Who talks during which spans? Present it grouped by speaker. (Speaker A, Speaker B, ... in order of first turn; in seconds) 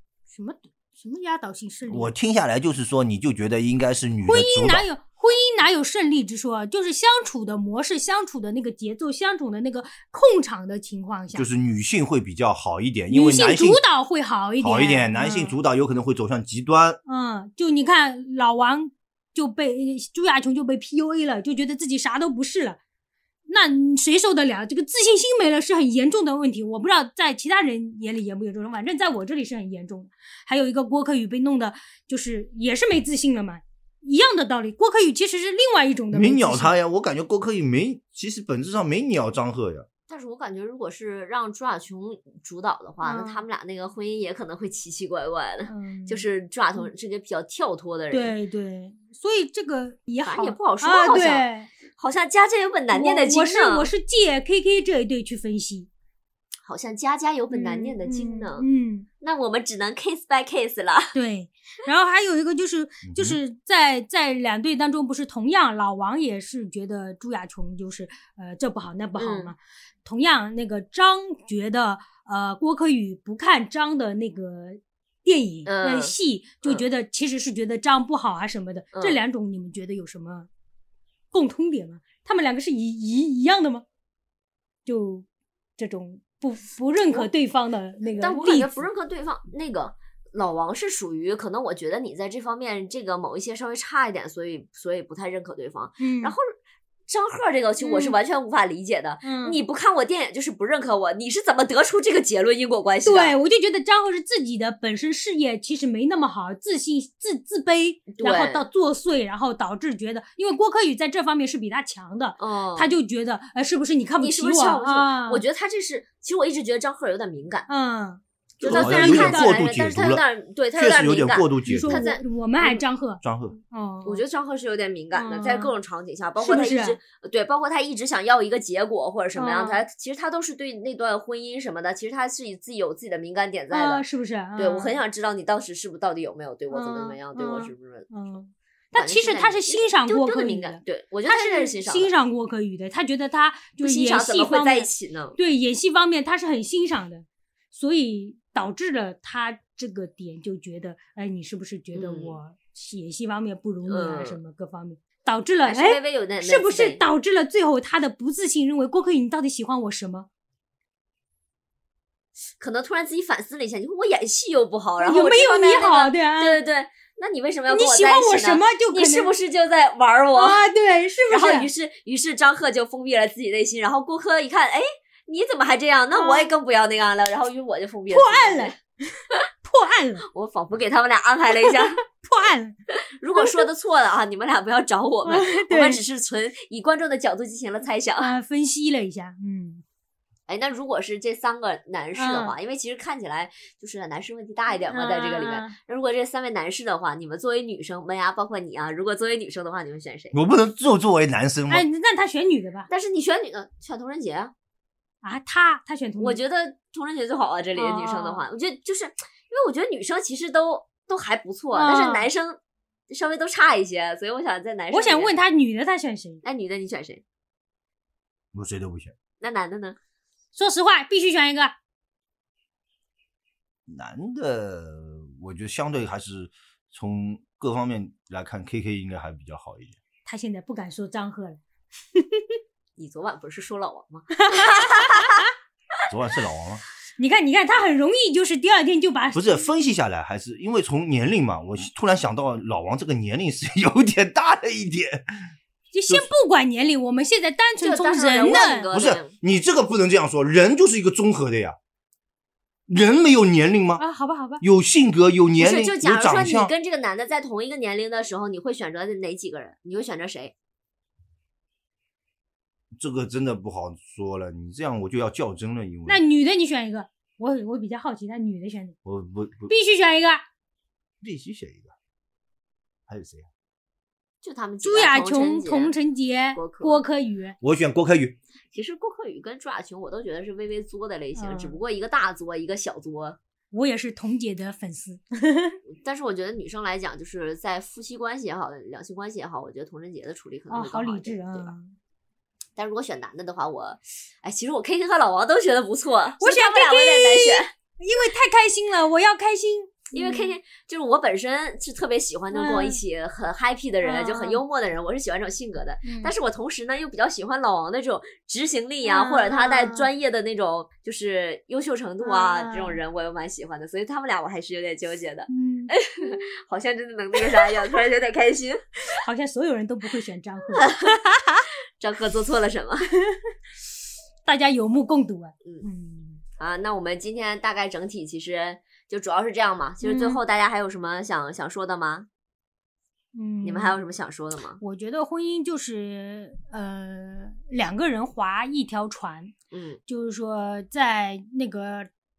Speaker A: 0.3-2.1, 4.3-11.5, 13.1-15.6, 17.1-22.8, 23.5-36.7, 43.0-43.4, 45.7-46.2, 48.1-51.7, 52.9-55.9, 57.5-59.1, 61.1-80.5, 81.3-83.8, 84.9-85.3, 85.8-88.9, 96.0-96.3, 97.8-98.2, 99.2-99.6, 103.0-115.4, 117.7-119.6, 121.7-124.2, 125.2-125.7, 126.4-127.0, 129.4-129.8, 133.7-134.9, 136.7-160.3, 165.0-166.6, 167.7-169.3, 170.4-171.7, 176.1-176.5, 178.1-180.2, 181.6-182.8, 183.4-183.6, 185.2-186.1, 188.2-189.8, 192.2-192.6, 194.9-195.7, 201.7-202.9, 205.2-206.4, 207.8-208.4, 211.7-212.3, 214.9-216.4, 220.6-221.7, 230.3-231.6, 232.2-232.6, 234.4-235.5, 237.2-239.7, 245.9-248.9, 254.0-254.6, 266.1-268.9, 269.7-270.4, 274.8-277.6, 281.4-281.8, 283.7-285.8, 290.7-291.9, 296.4-300.5, 302.5-303.0, 304.0-304.6, 306.1-306.3, 309.0-310.1, 312.2-313.0, 315.5-316.3, 319.1-321.6, 324.4-326.4, 330.0-330.4, 333.3-334.0, 334.8-339.5, 340.1-342.1
Speaker B: 1.9-4.9, 11.3-13.8, 14.6-17.0, 36.1-39.9, 63.0-63.4, 118.6-120.2, 120.7-122.0, 123.2-123.6, 200.3-201.8, 218.5-219.1, 223.9-230.0, 236.1-236.8, 239.3-245.4, 248.5-251.8, 252.9-254.0, 254.6-256.7, 262.9-266.2, 269.1-269.7, 271.2-271.9, 273.1-273.5, 277.6-278.4
Speaker C: 40.1-48.3, 50.2-53.9, 56.6-58.6, 59.2-61.1, 69.2-69.5, 75.7-76.9, 78.9-79.2, 88.2-96.5, 97.1-103.3, 108.1-108.7, 112.4-112.9, 114.2-117.7, 118.6-122.8, 124.0-134.0, 134.6-138.1, 138.9-142.1, 143.8-145.4, 151.9-152.4, 153.9-154.4, 155.6-157.0, 162.6-170.6, 171.3-178.7, 180.3-182.0, 183.2-188.3, 190.5-200.4, 202.9-204.5, 206.2-212.6, 213.1-215.3, 216.4-217.2, 219.4-220.0, 233.0-235.4, 247.8-249.3, 255.6-260.5, 274.4-275.9, 276.5-277.0, 278.7-283.4, 285.9-291.7, 292.8-297.7, 300.1-318.8, 320.8-321.1, 322.0-323.1, 326.6-332.3, 333.6-334.8, 339.7-340.0